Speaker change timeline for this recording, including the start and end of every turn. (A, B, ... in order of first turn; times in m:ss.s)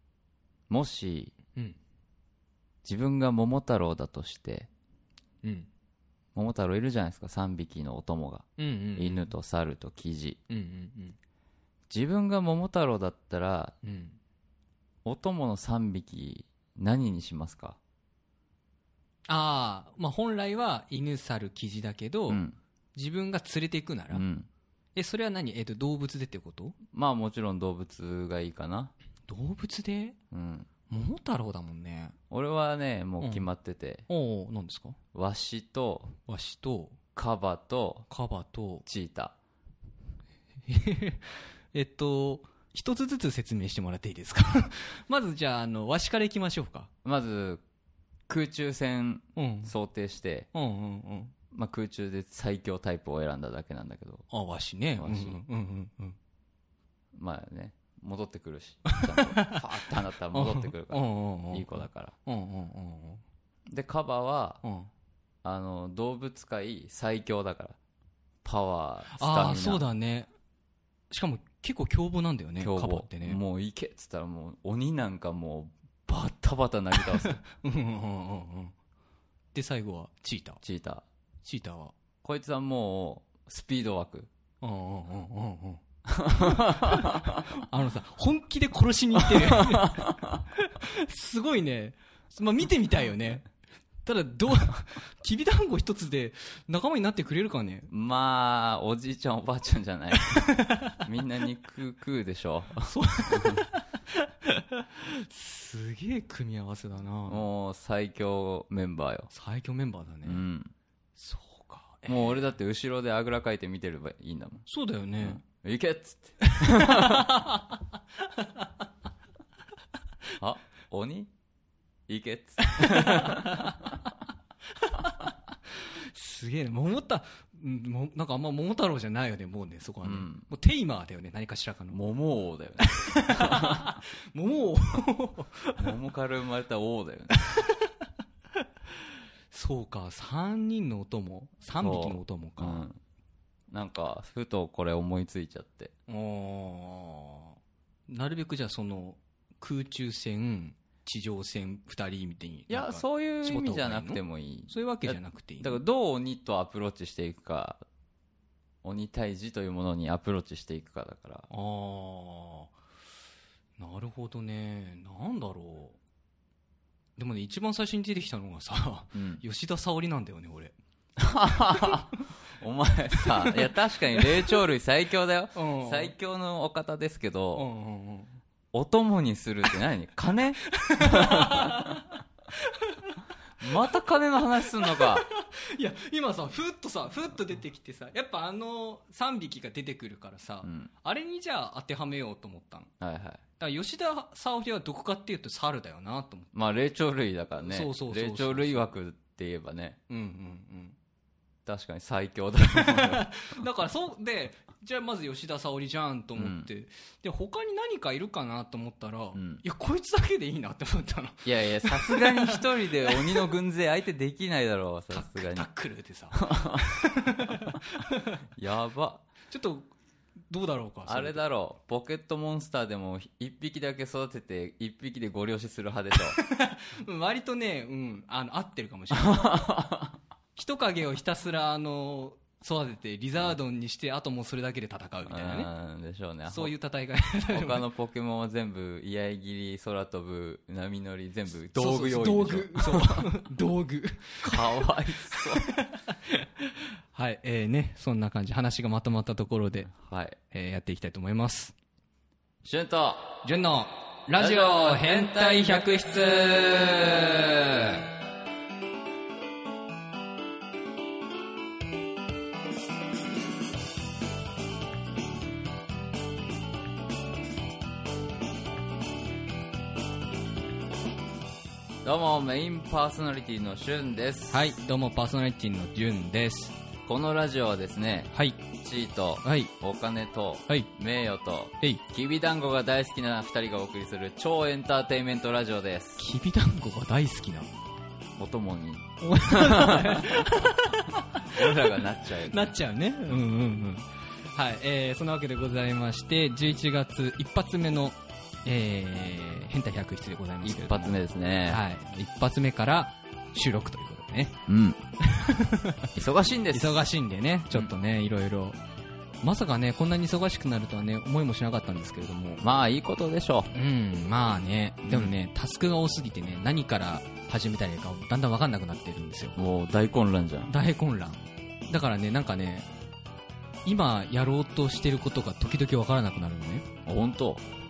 0:00.7-0:01.4 A
0:02.8-0:04.7 A
0:05.4-0:05.7 B
0:06.4-0:08.5 A
0:08.6-0:09.3 B
0:09.0-0:10.4 A
0:10.5-0:11.2 B
0:11.9-0:13.8 A
0:13.8-0:14.2 B
0:15.0-0:17.8 A
0:19.3-0:22.4 B
0:22.3-0:22.6 A
0:23.0-0:24.2 B
0:24.1-0:24.5 A
0:25.0-0:26.8 B
0:26.9-0:28.9 A
0:29.3-0:30.2 B
0:30.3-0:30.7 A
0:30.9-0:32.2 B
0:32.3-0:34.1 A
0:33.2-0:33.5 B
0:34.1-0:35.0 B
0:35.1-0:36.2 A
0:36.2-0:37.0 B
0:37.2-0:38.1 A
0:38.1-0:38.9 B
0:38.9-0:39.4 A
0:40.7-0:46.9 B
0:47.0-0:47.6 A
0:48.3-0:50.5 A
0:49.4-0:49.7 B
0:50.5-0:51.3 B
0:51.5-0:54.2 A
0:54.3-0:56.2 B
0:55.0-0:55.4 A
0:57.2-1:02.2 A
0:59.0-1:03.2 B
1:03.7-1:04.6 A
1:04.6-1:04.9 B
1:05.4-1:07.8 A
1:08.4-1:09.8 A
1:09.1-1:10.3 B
1:11.1-1:13.4 B
1:12.6-1:17.4 A
1:16.9-1:18.7 B
1:19.5-1:20.6 B
1:20.6-1:21.0 A
1:21.4-1:21.9 B
1:22.2-1:24.3 A
1:24.6-1:33.4 B
1:26.1-1:27.5 A
1:29.2-1:30.4 A
1:34.0-1:37.9 B
1:37.9-1:43.7 A
1:40.2-1:41.0 B
1:42.8-1:47.4 B
1:47.3-1:49.3 A
1:49.3-1:50.4 B
1:50.2-1:50.7 A
1:51.2-1:52.4 B
1:52.1-1:54.6 A
1:54.7-1:55.4 B
1:55.2-1:57.5 A
1:56.4-1:58.8 B
2:00.4-2:01.3 A
2:02.1-2:04.0 A
2:02.6-2:03.8 B
2:04.8-2:12.0 B
2:10.0-2:10.5 A
2:11.9-2:13.9 A
2:12.8-2:16.0 B
2:15.8-2:17.4 A
2:17.3-2:22.9 B
2:21.8-2:23.0 A
2:23.7-2:25.9 A
2:26.1-2:35.8 B
2:32.7-2:37.8 A
2:38.8-2:41.5 A
2:41.5-2:42.7 B
2:43.8-2:46.0 B
2:47.2-2:50.8 B
2:49.1-2:49.4 A
2:51.2-2:57.7 A
2:53.2-2:54.5 B
2:55.6-2:56.1 B
2:57.6-2:58.4 B
2:58.7-3:02.0 A
3:00.7-3:04.0 B
3:03.6-3:05.3 A
3:04.8-3:12.9 B
3:10.6-3:10.9 A
3:13.0-3:13.4 A
3:13.6-3:16.5 B
3:16.5-3:20.0 A
3:17.6-3:18.9 B
3:20.1-3:21.0 B
3:21.7-3:23.4 A
3:22.7-3:33.5 B
3:26.4-3:26.7 A
3:29.4-3:29.6 A
3:31.4-3:35.7 A
3:35.1-3:38.4 B
3:36.3-3:37.8 A
3:38.6-3:39.2 A
3:39.5-3:39.9 B
3:40.5-3:41.4 B
3:41.1-3:46.4 A
3:46.2-3:49.9 B
3:49.1-3:50.2 A
3:50.6-3:55.7 B
3:55.3-3:56.7 A
3:56.5-3:57.8 B
3:57.5-4:03.3 A
4:01.7-4:09.9 B
4:04.4-4:05.7 A
4:09.9-4:10.4 A
4:10.5-4:11.8 B
4:12.6-4:13.4 A
4:13.4-4:18.0 B
4:14.4-4:16.0 A
4:16.6-4:17.4 A
4:32.0-4:34.6 A
4:34.5-4:36.8 B
4:37.0-4:46.2 A
4:38.3-4:38.6 B
4:39.4-4:39.7 B
4:46.2-4:47.7 B
4:48.4-4:50.6 A
4:49.2-5:04.6 B
4:51.3-4:52.7 A
5:00.6-5:01.8 A
5:04.7-5:05.0 A
5:05.2-5:06.1 B
5:06.2-5:07.0 A
5:06.7-5:08.8 B
5:09.4-5:12.6 B
5:12.6-5:13.7 A
5:13.7-5:19.6 B
5:15.1-5:15.3 A
5:19.6-5:20.7 A
5:20.7-5:22.9 B
5:23.8-5:26.9 B
5:27.1-5:27.6 A